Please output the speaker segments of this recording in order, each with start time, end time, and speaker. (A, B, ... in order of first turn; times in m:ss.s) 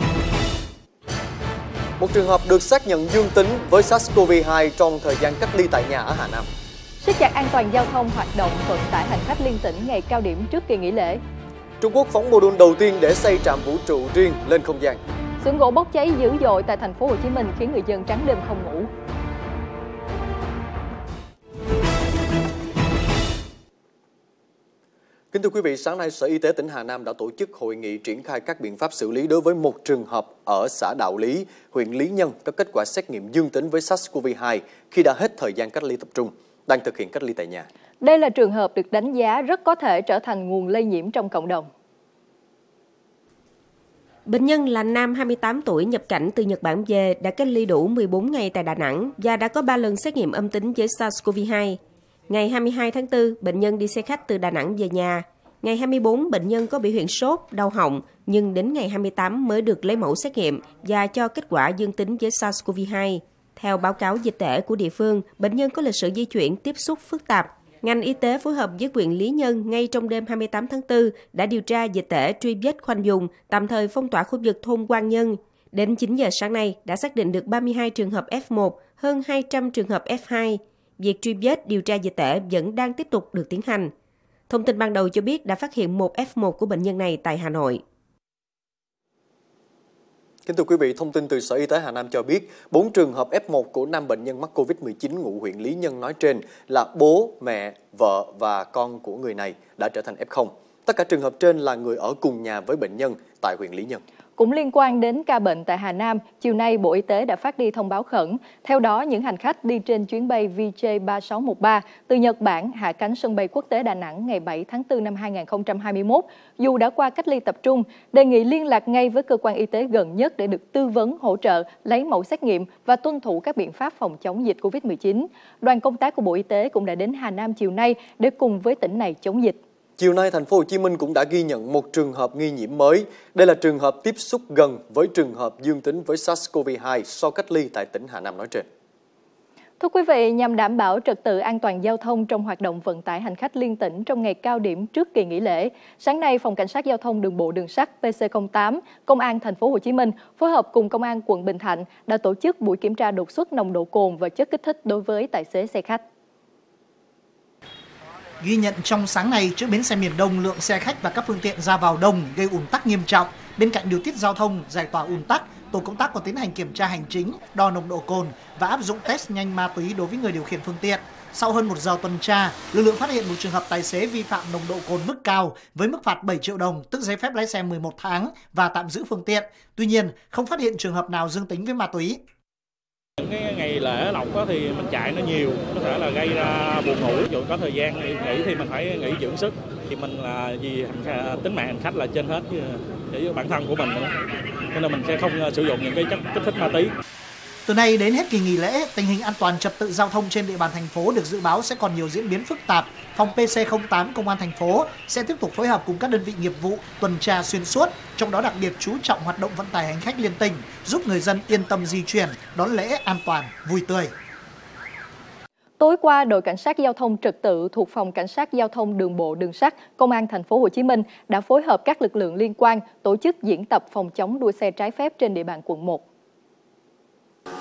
0:02.0-0:06.5 A
0:07.0-0:11.2 B
0:11.8-0:15.0 A
0:15.4-0:18.9 B
0:25.3-0:37.7 A
0:38.0-0:41.7 B
0:44.3-0:51.8 C
0:52.3-1:23.9 C
1:24.5-1:27.8 C
1:30.4-1:44.0 A
1:44.4-2:09.6 B
2:10.0-2:18.6 A
2:19.8-2:36.0 B
2:38.4-3:02.2 D
3:03.2-3:14.1 E
3:14.7-3:16.9 E
3:17.6-3:34.1 D
3:35.8-3:46.0 B